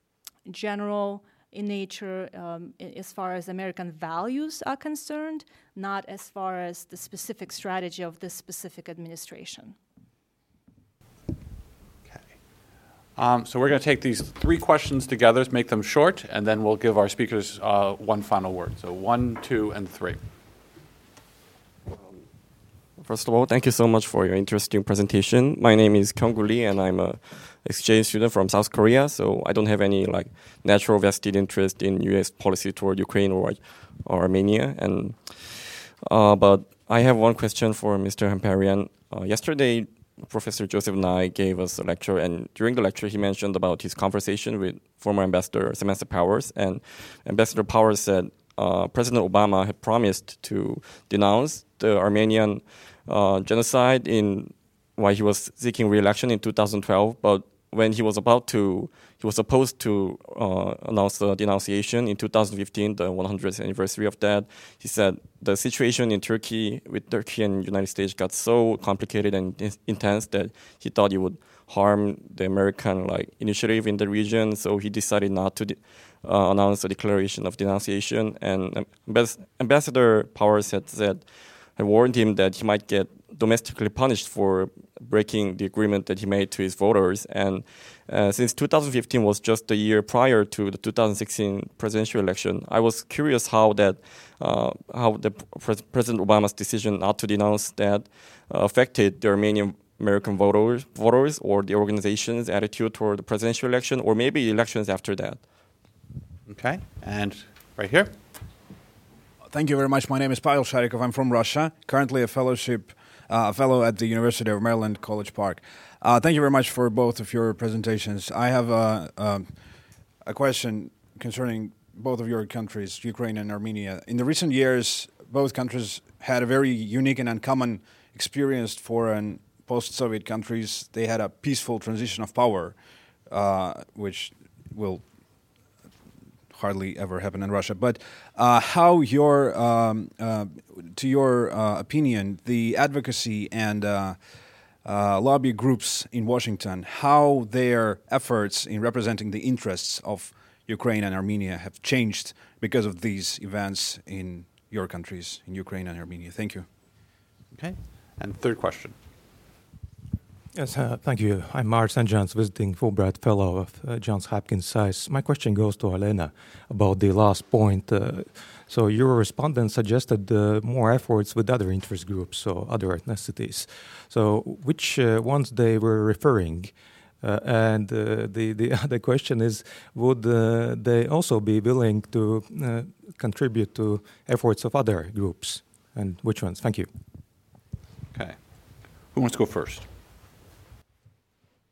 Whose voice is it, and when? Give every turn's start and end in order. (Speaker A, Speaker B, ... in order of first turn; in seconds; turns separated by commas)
Speaker A: 0.5-9.8, Speaker B: 12.1-20.2, Speaker C: 23.0-105.5, Speaker B: 106.5-108.2, Speaker D: 109.5-135.1, Speaker D: 136.5-156.7, Speaker B: 157.5-158.9, Speaker E: 160.5-186.9, Speaker B: 188.1-189.9